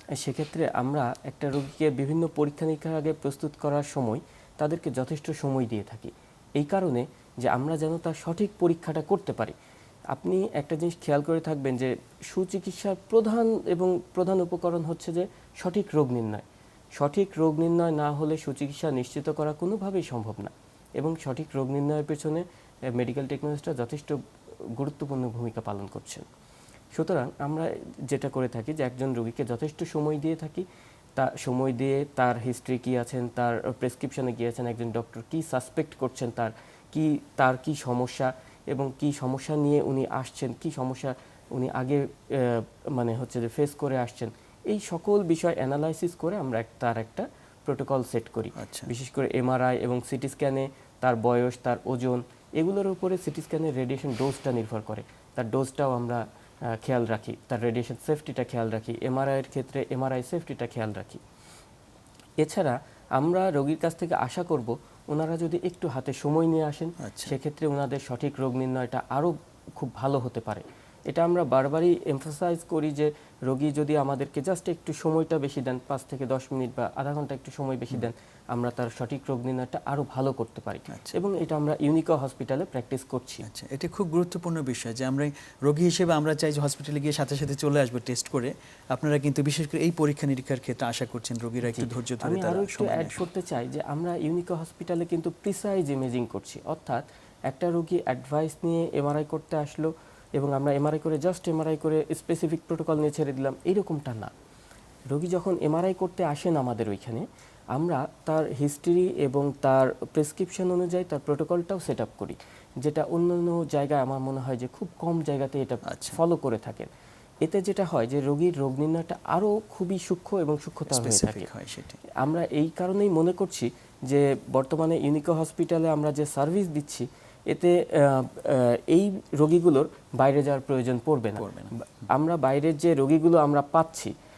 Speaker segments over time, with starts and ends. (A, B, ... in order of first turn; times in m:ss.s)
0:00.2-0:09.5 A
0:10.1-0:16.4 A
0:17.0-0:24.2 A
0:24.8-0:26.2 A
0:27.0-0:30.6 A
0:31.2-0:56.2 A
0:48.6-0:48.9 B
0:56.8-1:01.2 A
1:02.4-1:23.4 A
1:07.0-1:07.4 B
1:20.9-1:21.2 B
1:23.5-1:33.2 B
1:31.7-1:44.3 A
1:45.1-1:56.9 A
1:55.9-1:56.2 B
1:57.4-2:01.5 A
2:00.9-2:02.0 B
2:02.2-2:11.5 A
2:11.4-2:11.7 B
2:12.1-2:14.1 A